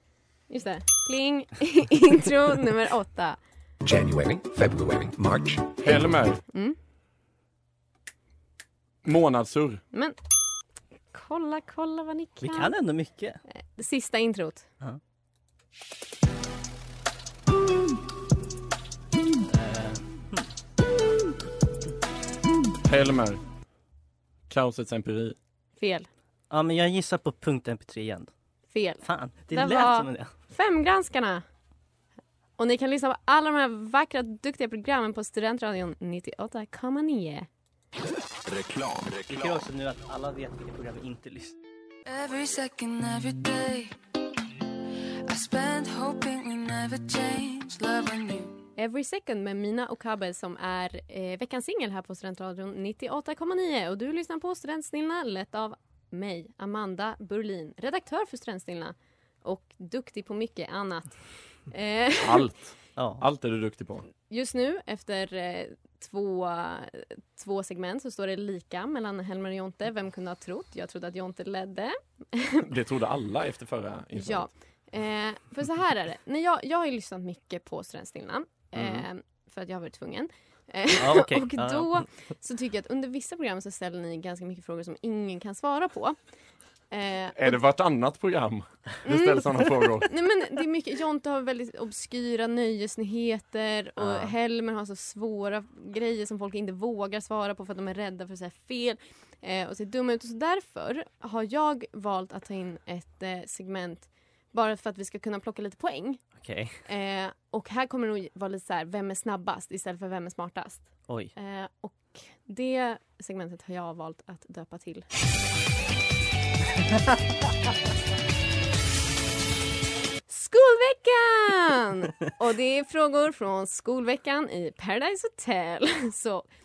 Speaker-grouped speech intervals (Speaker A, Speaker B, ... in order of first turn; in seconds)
Speaker A: 0.5-3.4, 6.5-6.8, 11.1-12.7, 13.8-14.7, 25.8-26.1, 28.7-31.4, 32.6-37.5, 48.8-62.5, 64.3-72.6, 74.2-86.2, 86.9-87.6, 89.0-106.2, 106.8-115.0, 120.3-126.5
Speaker B: 3.8-5.8
Speaker C: 5.8-6.4, 9.0-9.8, 22.8-23.4, 24.5-25.4, 62.2-64.1, 72.7-74.5, 87.3-90.1
Speaker D: 12.4-13.4, 19.5-20.5, 26.5-28.3, 29.0-30.3, 39.3-41.5, 63.0-63.2, 78.8-79.0, 81.0-82.0, 94.0-94.3, 106.4-106.8
Speaker E: 38.4-39.6, 42.0-44.0, 45.3-48.6